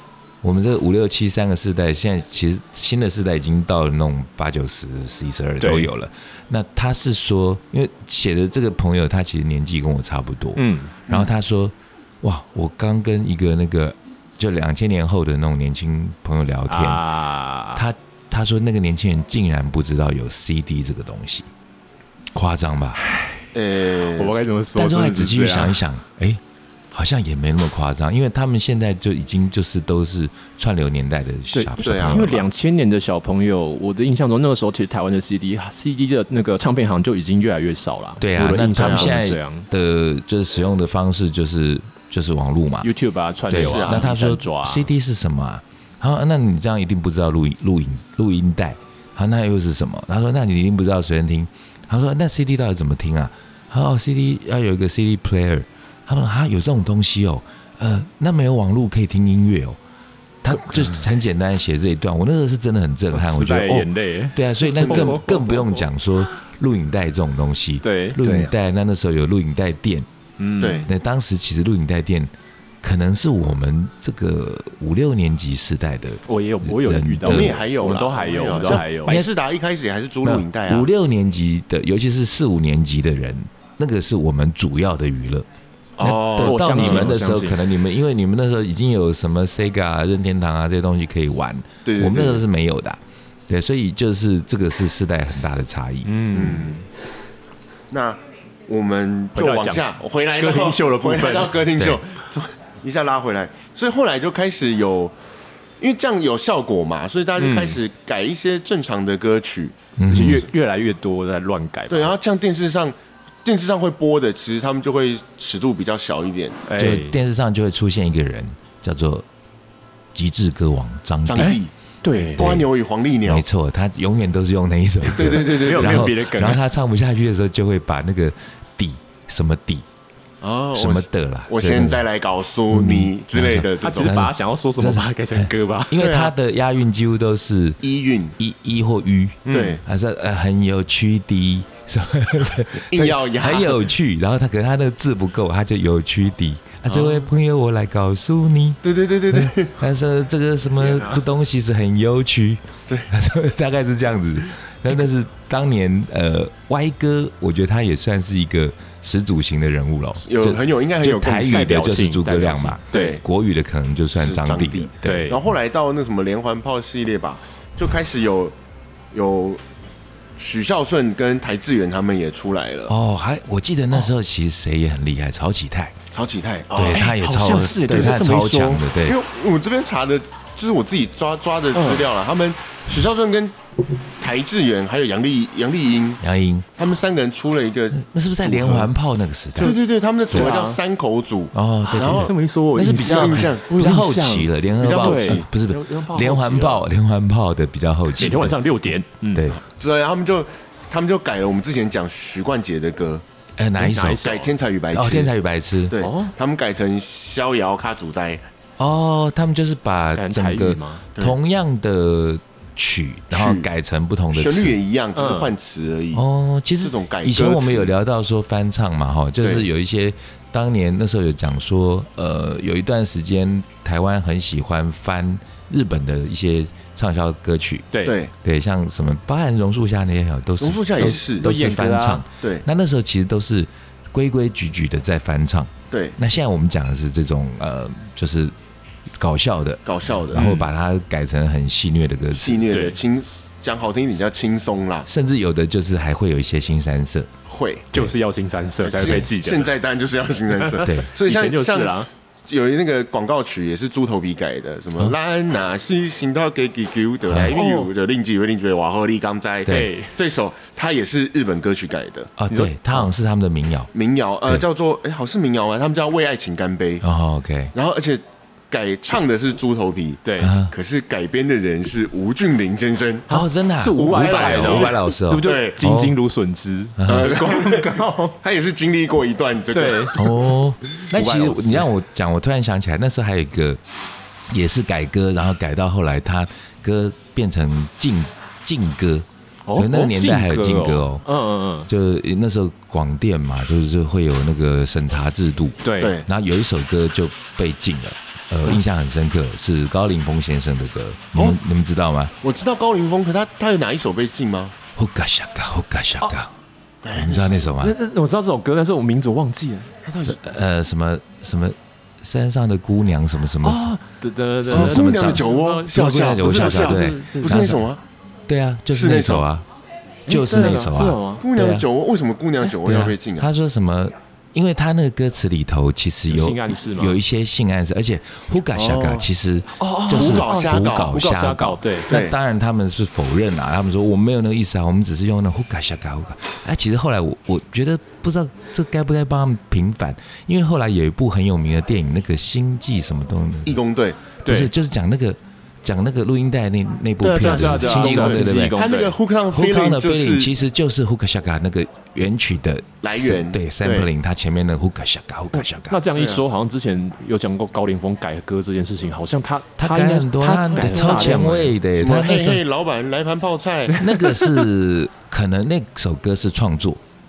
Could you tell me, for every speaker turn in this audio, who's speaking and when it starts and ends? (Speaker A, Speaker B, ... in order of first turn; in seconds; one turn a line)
Speaker A: 0.4-17.1
Speaker B: 5.6-5.9
Speaker B: 10.6-11.0
Speaker B: 16.7-17.8
Speaker A: 17.8-21.5
Speaker A: 22.3-23.0
Speaker B: 23.0-25.8
Speaker C: 23.5-24.4
Speaker A: 24.8-26.4
Speaker A: 26.9-32.4
Speaker B: 31.5-39.7
Speaker C: 31.8-32.4
Speaker A: 38.2-42.9
Speaker C: 38.8-39.1
Speaker B: 42.8-44.9
Speaker A: 43.5-59.8
Speaker C: 43.5-44.1
Speaker A: 60.4-70.1
Speaker B: 63.1-65.8
Speaker C: 64.9-65.2
Speaker B: 67.8-68.2
Speaker C: 68.2-68.5
Speaker B: 70.4-70.9
Speaker C: 70.6-70.9
Speaker A: 70.9-72.3
Speaker A: 72.8-77.6
Speaker B: 76.3-79.2
Speaker C: 77.2-80.9
Speaker A: 78.7-79.3
Speaker A: 80.2-85.5
Speaker C: 86.0-87.1
Speaker A: 86.0-96.1
Speaker B: 86.4-87.6
Speaker C: 91.8-92.4
Speaker B: 96.1-96.8
Speaker C: 96.3-96.8
Speaker C: 97.9-105.1
Speaker B: 99.3-101.7
Speaker C: 105.8-110.4
Speaker B: 107.4-107.8
Speaker A: 110.0-110.5
Speaker B: 110.1-112.1
Speaker C: 111.9-116.6
Speaker B: 116.7-117.2
Speaker A: 116.8-119.3
Speaker A: 120.1-121.6
Speaker C: 121.3-123.5
Speaker B: 121.4-122.7
Speaker A: 123.3-129.8
Speaker C: 125.1-126.1
Speaker B: 125.3-126.6
Speaker C: 130.4-134.2
Speaker A: 130.7-132.0
Speaker A: 132.7-137.8
Speaker B: 133.8-136.1
Speaker C: 136.0-136.3
Speaker C: 137.8-138.4
Speaker A: 138.4-148.8
Speaker B: 139.4-139.8
Speaker C: 139.5-139.8
Speaker C: 142.9-143.9
Speaker C: 146.9-147.3
Speaker C: 148.8-149.8
Speaker A: 149.3-165.4
Speaker B: 150.8-151.2
Speaker C: 160.2-161.7
Speaker B: 161.3-163.2
Speaker C: 162.9-163.2
Speaker C: 164.2-168.6
Speaker B: 165.0-165.4
Speaker C: 169.1-169.6
Speaker C: 170.4-172.9
Speaker A: 172.9-176.0
Speaker C: 176.1-177.2
Speaker A: 176.7-179.2
Speaker B: 176.8-178.8
Speaker C: 177.9-178.3
Speaker C: 179.0-183.6
Speaker B: 181.7-182.1
Speaker C: 184.2-186.2
Speaker A: 186.2-186.7
Speaker C: 186.8-188.9
Speaker A: 187.9-189.7
Speaker B: 189.6-190.8
Speaker C: 189.6-192.3
Speaker A: 191.5-198.6
Speaker B: 191.9-196.9
Speaker C: 192.9-193.7
Speaker C: 194.8-195.5
Speaker B: 198.2-199.5
Speaker A: 199.3-199.6
Speaker C: 199.6-203.2
Speaker A: 203.6-204.3
Speaker B: 203.8-204.6
Speaker C: 204.2-205.3
Speaker A: 204.9-206.0
Speaker C: 205.9-208.4
Speaker B: 206.0-206.3
Speaker A: 208.8-214.8
Speaker B: 210.2-211.1
Speaker C: 213.3-213.7
Speaker C: 214.3-216.2
Speaker B: 215.2-215.5
Speaker A: 216.1-227.9
Speaker C: 216.8-217.9
Speaker C: 219.4-219.7
Speaker C: 228.0-228.3
Speaker A: 228.4-238.5
Speaker C: 230.6-231.5
Speaker B: 231.0-232.2
Speaker C: 235.9-236.2
Speaker A: 239.2-242.7
Speaker C: 239.9-240.5
Speaker B: 240.3-240.7
Speaker C: 242.3-245.1
Speaker B: 242.7-243.0
Speaker A: 245.1-247.3
Speaker C: 247.5-247.9
Speaker B: 247.9-249.7
Speaker C: 248.8-262.3
Speaker B: 250.7-252.1
Speaker A: 250.8-251.1
Speaker A: 257.3-257.6
Speaker B: 257.3-257.9
Speaker B: 259.7-260.1
Speaker A: 262.4-263.9
Speaker B: 262.5-263.1
Speaker C: 263.9-267.1
Speaker A: 267.0-267.7
Speaker C: 267.7-273.3
Speaker B: 270.2-270.5
Speaker A: 270.4-270.7
Speaker A: 273.3-276.2
Speaker B: 273.3-278.4
Speaker C: 274.0-275.8
Speaker A: 277.0-277.3
Speaker C: 277.1-280.2
Speaker B: 279.7-280.1
Speaker A: 280.1-283.8
Speaker C: 281.0-281.9
Speaker A: 284.5-291.2
Speaker B: 289.7-291.9
Speaker A: 291.9-302.3
Speaker B: 295.8-296.2
Speaker C: 296.0-296.3
Speaker C: 302.4-304.7
Speaker A: 305.0-306.5
Speaker C: 307.0-307.7
Speaker A: 307.1-308.0
Speaker B: 307.8-310.0
Speaker C: 310.1-310.4
Speaker A: 310.3-313.9
Speaker B: 313.6-317.8
Speaker A: 314.7-317.8
Speaker C: 314.7-318.0
Speaker A: 318.5-319.7
Speaker C: 318.9-319.5
Speaker A: 320.3-321.9
Speaker C: 320.3-323.5
Speaker B: 320.3-321.4
Speaker A: 322.8-343.8
Speaker B: 326.3-327.2
Speaker C: 328.7-329.3
Speaker B: 329.8-332.1
Speaker C: 330.1-331.1
Speaker C: 332.1-332.4
Speaker C: 343.7-344.2
Speaker B: 344.4-344.7
Speaker A: 344.4-348.8
Speaker C: 347.2-350.5
Speaker B: 347.4-349.2
Speaker A: 349.5-356.0
Speaker C: 353.0-354.1
Speaker B: 355.6-361.8
Speaker C: 356.1-356.4
Speaker A: 359.8-362.6
Speaker C: 360.7-364.0
Speaker B: 363.9-364.6
Speaker A: 364.0-367.0